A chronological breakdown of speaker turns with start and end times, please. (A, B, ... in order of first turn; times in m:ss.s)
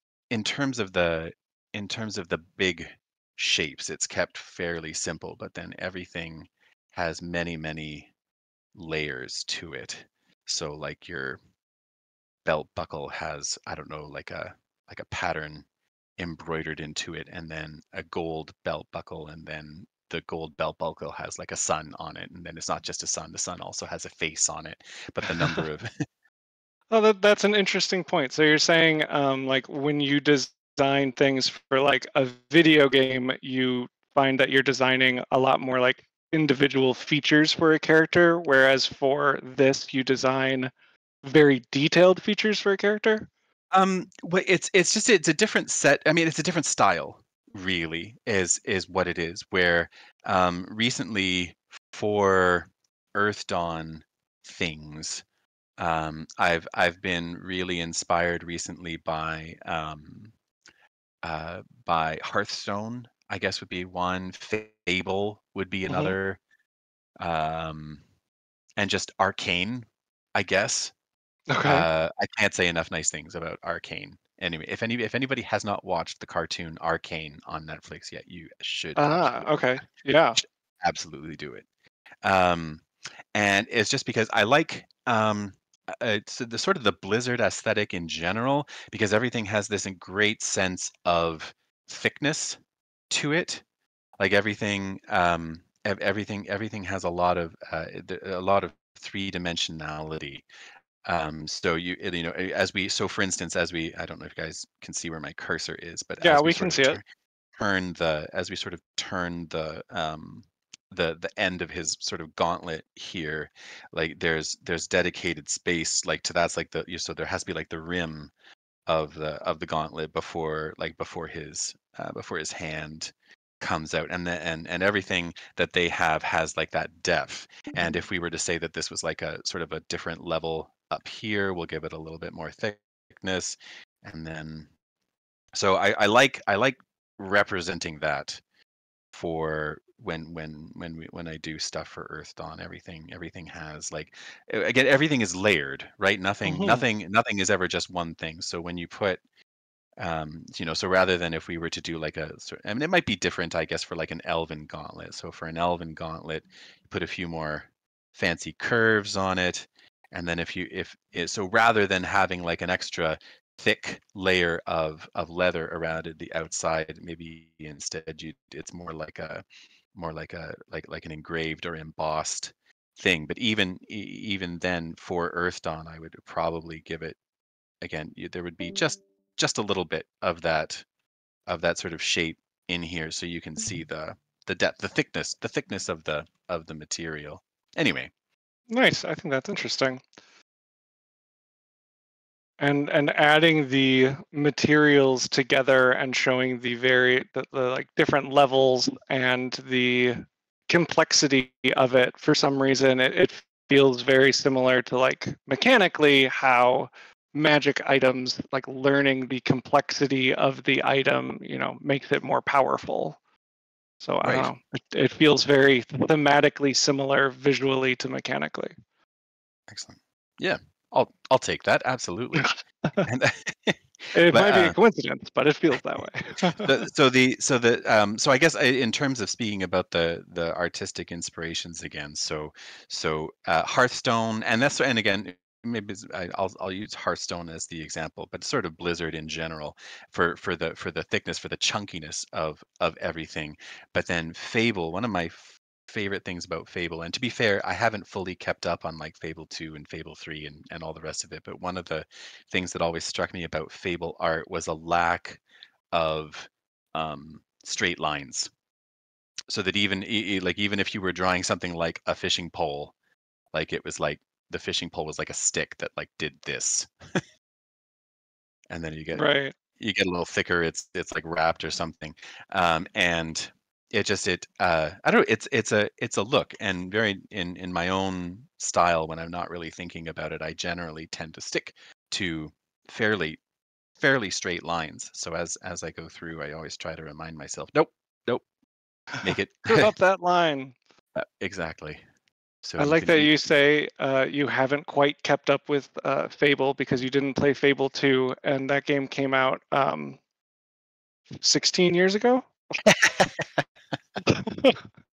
0:00.3-0:08.1 A
0:08.8-0:11.4 A
0:12.4-0:15.6 A
0:16.2-0:25.9 A
0:25.3-0:25.6 B
0:26.9-0:40.7 B
0:41.2-0:43.3 B
0:43.7-0:55.2 A
0:55.8-1:00.3 A
1:01.2-1:06.4 A
1:05.9-1:06.2 B
1:07.2-1:08.0 A
1:08.8-1:10.9 A
1:11.5-1:11.9 B
1:11.6-1:19.6 A
1:19.0-1:20.4 B
1:20.8-1:21.7 A
1:22.2-1:32.6 A
1:33.1-1:33.6 A
1:34.2-1:40.4 A
1:41.1-1:47.0 A
1:46.2-1:47.0 B
1:47.6-1:58.3 A
1:58.9-2:14.7 A
2:15.5-2:18.4 A
2:19.1-2:29.2 A
2:26.4-2:26.9 B
2:30.0-2:57.2 A
2:57.8-3:00.8 A
3:01.5-3:08.1 A
3:08.7-3:10.0 B
3:12.6-3:33.2 B
3:34.0-3:38.7 B
3:34.2-3:34.5 A
3:39.7-3:42.5 A
3:42.4-3:43.1 B
3:43.0-3:44.8 A
3:44.1-3:46.8 B
3:46.6-4:15.4 A
4:15.9-4:18.5 A
4:19.5-4:22.9 A
4:23.5-4:27.2 A
4:28.7-4:43.4 A
4:29.1-4:29.5 B
4:44.0-4:48.4 A
4:49.2-4:49.9 A
4:49.6-4:50.8 B
4:51.2-4:52.0 A
4:52.6-4:53.3 A
4:52.8-5:00.2 B
5:01.4-5:02.4 B
5:02.8-5:03.6 A
5:04.3-5:04.8 B